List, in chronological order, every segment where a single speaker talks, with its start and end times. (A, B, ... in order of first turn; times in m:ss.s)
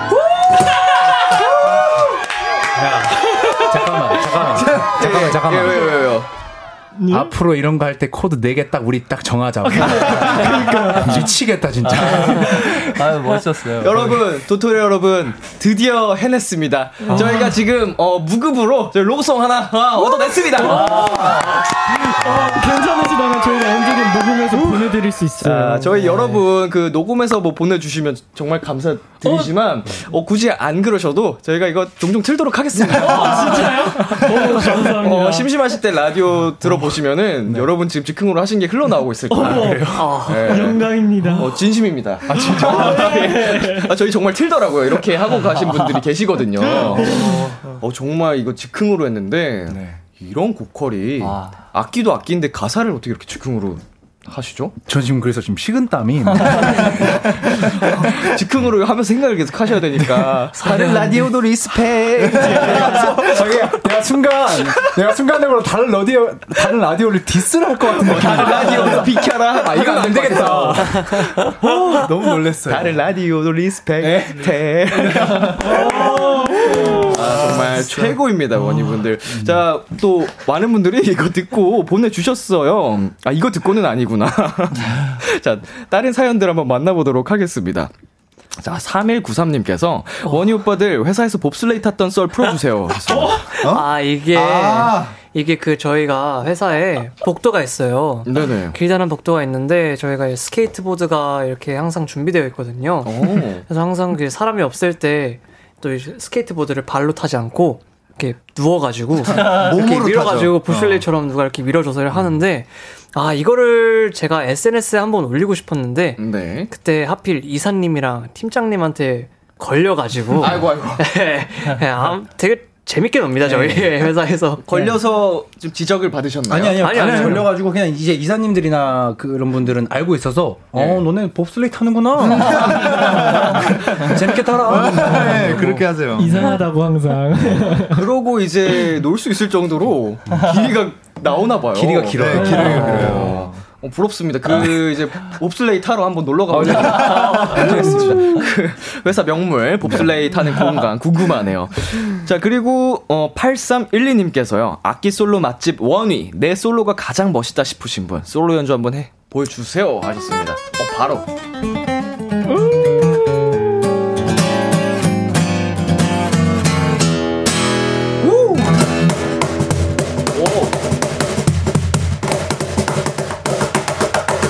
0:02.7-0:06.1 A
0:04.5-0:06.3 B
0:04.6-0:05.1 C
0:07.0-0:07.3 D
0:07.1-0:13.0 A
0:09.6-0:11.3 D
0:11.9-0:14.3 E
0:12.4-0:12.8 B
0:13.8-0:21.1 B
0:17.0-0:17.5 D
0:20.6-0:26.0 D
0:20.6-0:21.4 E
0:25.4-0:54.8 B
0:29.2-0:29.5 D
0:32.9-0:35.5 D
0:39.3-0:41.6 D
0:39.4-0:40.3 A
0:40.0-0:40.7 F
0:42.3-0:43.0 A
0:42.3-0:43.9 D
0:46.6-0:47.4 A
0:49.7-0:50.0 A
0:51.2-0:51.6 E
0:54.9-0:58.1 A
0:57.6-1:03.8 B
1:00.8-1:01.1 E
1:02.3-1:03.4 C
1:02.5-1:13.0 A
1:08.0-1:12.0 B
1:12.7-1:27.9 B
1:14.0-1:15.9 A
1:15.7-1:16.0 C
1:15.8-1:17.0 D
1:17.0-1:18.2 C
1:28.6-1:33.4 B
1:33.5-2:04.9 F
1:33.6-1:35.2 C
1:38.3-1:38.8 B
1:43.0-1:43.6 B
1:49.3-1:51.1 C
1:56.2-1:56.7 B
2:00.4-2:01.0 B
2:03.4-2:04.1 A
2:04.6-2:07.5 B
2:06.5-2:15.8 A
2:06.8-2:07.5 F
2:10.7-2:11.0 B
2:12.3-2:16.4 C
2:12.6-2:13.2 B
2:16.1-2:18.1 D
2:17.8-2:41.3 B
2:21.7-2:23.4 A
2:22.2-2:23.6 C
2:22.4-2:22.9 D
2:26.5-2:28.3 A
2:26.6-2:27.8 E
2:48.2-2:48.6 B
2:50.3-2:50.7 B